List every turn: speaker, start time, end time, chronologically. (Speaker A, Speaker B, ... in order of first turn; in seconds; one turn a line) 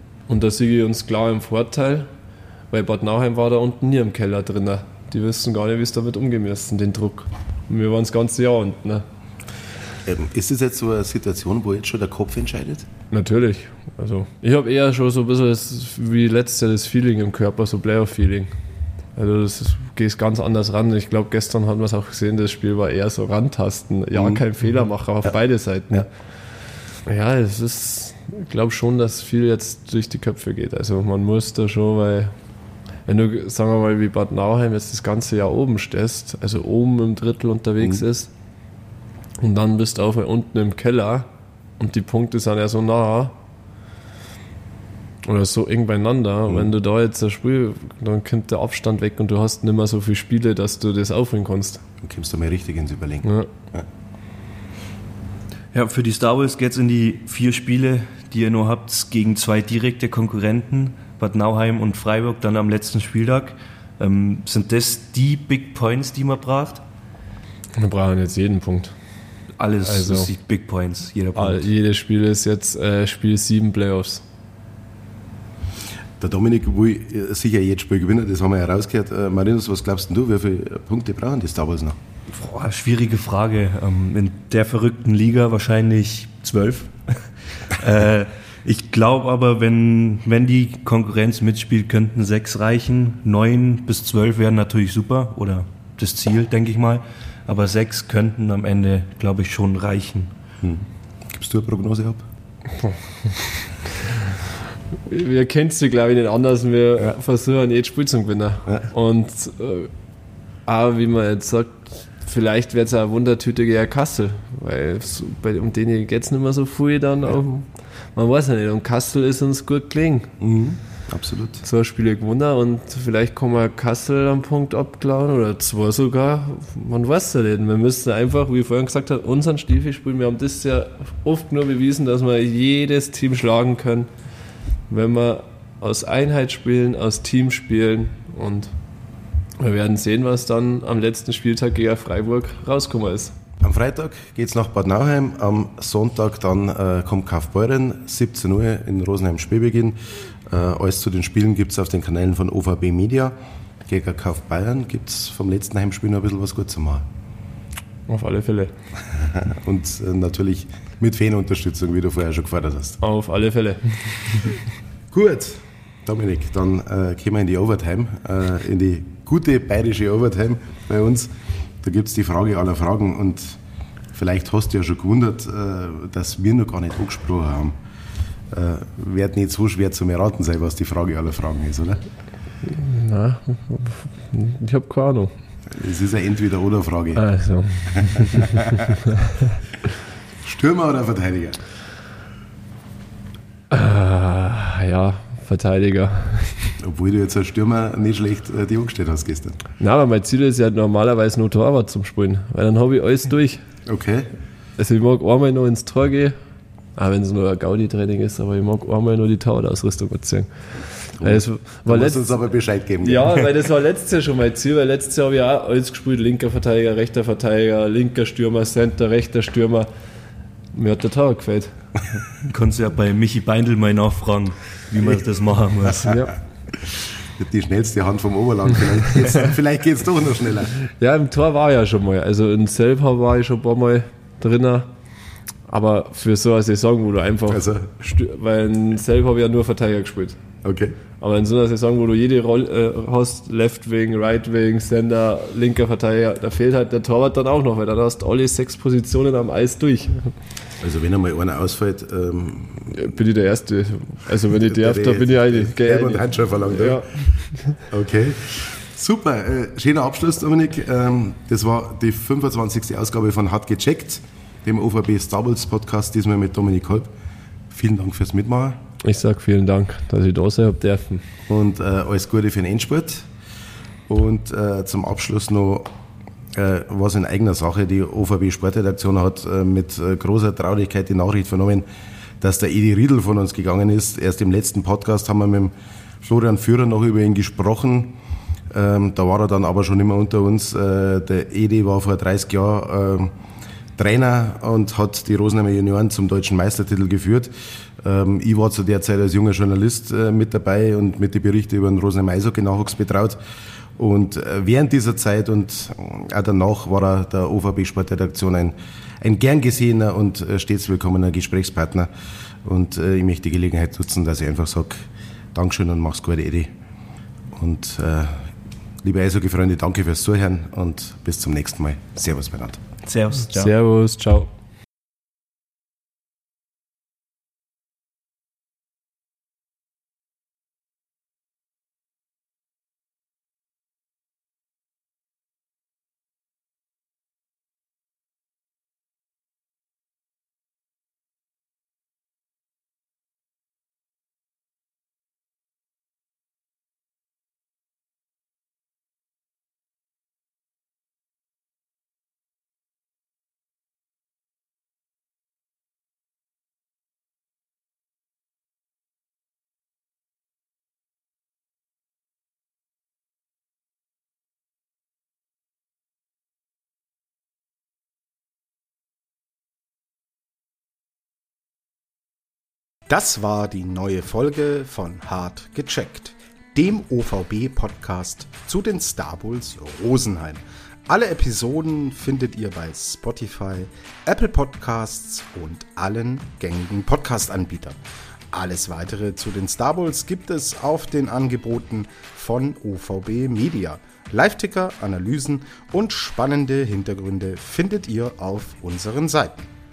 Speaker A: 0.3-2.1
Speaker A: 2.7-9.1
Speaker B: 10.1-12.9
Speaker A: 13.1-18.5
Speaker A: 19.2-26.1
Speaker B: 24.1-24.4
Speaker A: 27.1-32.3
Speaker A: 33.1-38.3
Speaker A: 39.4-41.3
Speaker A: 41.8-43.3
Speaker A: 45.2-51.8
Speaker B: 52.0-53.9
Speaker A: 53.2-53.5
Speaker C: 55.7-66.8
Speaker A: 67.8-69.0
Speaker C: 69.6-71.7
Speaker A: 69.8-70.3
Speaker A: 71.4-74.2
Speaker B: 76.2-82.0
Speaker C: 82.3-100.3
Speaker B: 100.6-102.2
Speaker A: 102.8-103.4
Speaker A: 105.0-109.9
Speaker A: 110.7-120.3
Speaker B: 120.4-121.6
Speaker A: 121.6-134.1
Speaker A: 134.9-138.7
Speaker A: 139.6-143.4
Speaker B: 143.6-153.3
Speaker B: 153.9-157.1
Speaker A: 158.1-158.7
Speaker B: 159.1-163.0
Speaker A: 163.0-164.4
Speaker B: 165.1-173.6
Speaker B: 174.1-177.7
Speaker B: 178.5-182.0
Speaker A: 182.6-185.3
Speaker B: 185.7-187.2
Speaker A: 187.1-189.4
Speaker B: 187.9-188.9
Speaker B: 190.4-191.6
Speaker A: 193.7-196.8
Speaker B: 196.8-199.6
Speaker A: 199.8-203.6
Speaker B: 203.9-204.3
Speaker A: 204.8-206.4
Speaker A: 206.9-210.5
Speaker A: 211.0-212.4
Speaker B: 211.2-213.4
Speaker A: 213.0-219.9
Speaker A: 220.7-221.7
Speaker C: 222.4-226.2
Speaker A: 226.1-226.3
Speaker B: 227.3-230.7
Speaker A: 230.8-234.9
Speaker A: 235.7-240.4
Speaker B: 237.5-237.9
Speaker B: 240.6-240.9
Speaker A: 241.2-250.3
Speaker B: 250.8-253.0
Speaker A: 252.9-257.8
Speaker B: 254.6-257.2
Speaker B: 257.9-267.1
Speaker B: 267.7-268.8
Speaker A: 269.0-271.2
Speaker B: 271.5-273.3
Speaker B: 274.1-275.9
Speaker B: 276.5-281.8
Speaker B: 282.4-288.2
Speaker B: 288.7-293.3
Speaker B: 294.0-303.4
Speaker B: 304.0-312.1
Speaker B: 312.6-316.7
Speaker B: 317.5-322.8
Speaker C: 323.1-323.7
Speaker A: 323.5-324.5
Speaker D: 373.1-388.0
Speaker D: 388.5-399.7